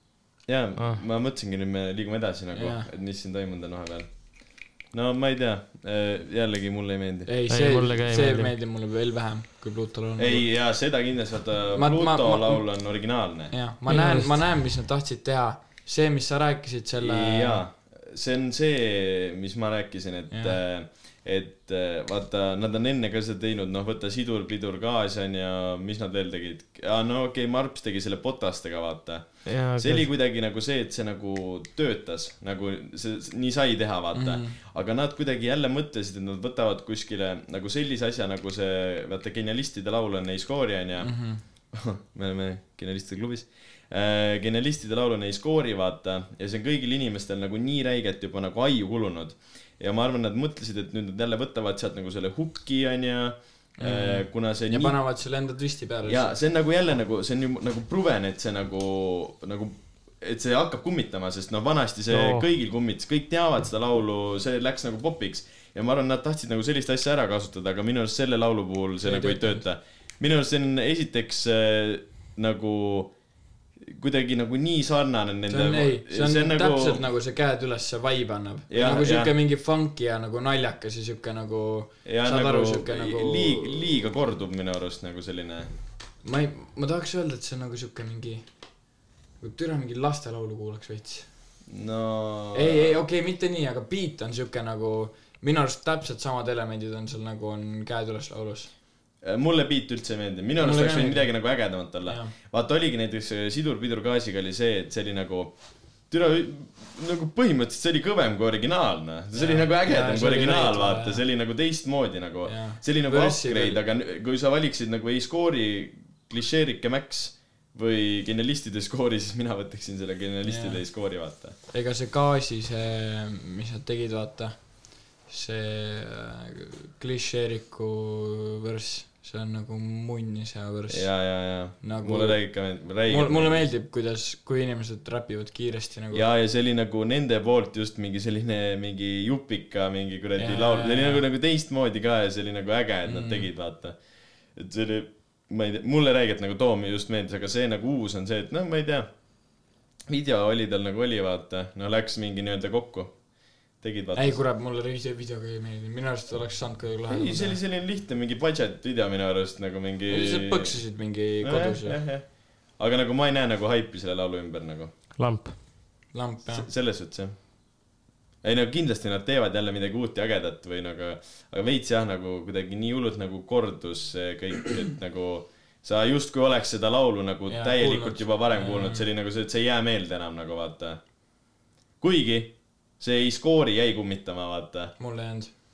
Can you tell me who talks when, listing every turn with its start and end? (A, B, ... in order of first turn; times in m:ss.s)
0:00.5-0:07.3 A
0:02.5-0:02.9 B
0:07.3-0:10.5 B
0:07.5-0:08.5 C
0:10.2-0:13.5 A
0:11.7-0:12.6 B
0:13.5-0:17.6 B
0:13.9-0:14.4 C
0:17.0-0:41.1 A
0:20.3-0:20.6 B
0:29.5-0:30.1 C
0:34.1-0:34.6 B
0:41.0-0:41.4 B
0:41.7-0:55.0 A
0:53.8-0:56.4 B
0:56.1-1:13.1 A
1:02.1-1:02.5 C
1:09.0-1:09.6 B
1:13.8-1:17.0 A
1:15.5-1:23.9 B
1:18.7-1:19.3 A
1:22.0-1:25.7 A
1:26.2-1:28.5 B
1:29.4-1:31.3 B
1:31.7-1:33.0 A
1:32.5-1:38.7 B
1:39.2-2:01.6 A
1:40.6-1:41.4 B
1:42.0-1:42.3 B
1:49.3-1:51.2 B
1:52.4-1:53.8 B
2:00.4-2:00.8 B
2:01.7-2:16.2 B
2:10.9-2:13.6 A
2:16.1-2:29.1 A
2:20.4-2:21.2 B
2:23.0-2:23.5 B
2:30.1-2:33.2 A
2:33.8-2:34.4 A
2:34.2-2:37.6 B
2:37.1-2:40.8 A
2:40.1-2:42.0 B
2:41.4-2:44.9 A
2:45.2-2:45.6 C
2:46.1-2:46.7 B
2:46.5-2:47.4 A
2:48.4-3:01.0 A
2:57.5-2:59.1 B
3:02.0-3:05.0 A
3:05.0-3:05.5 B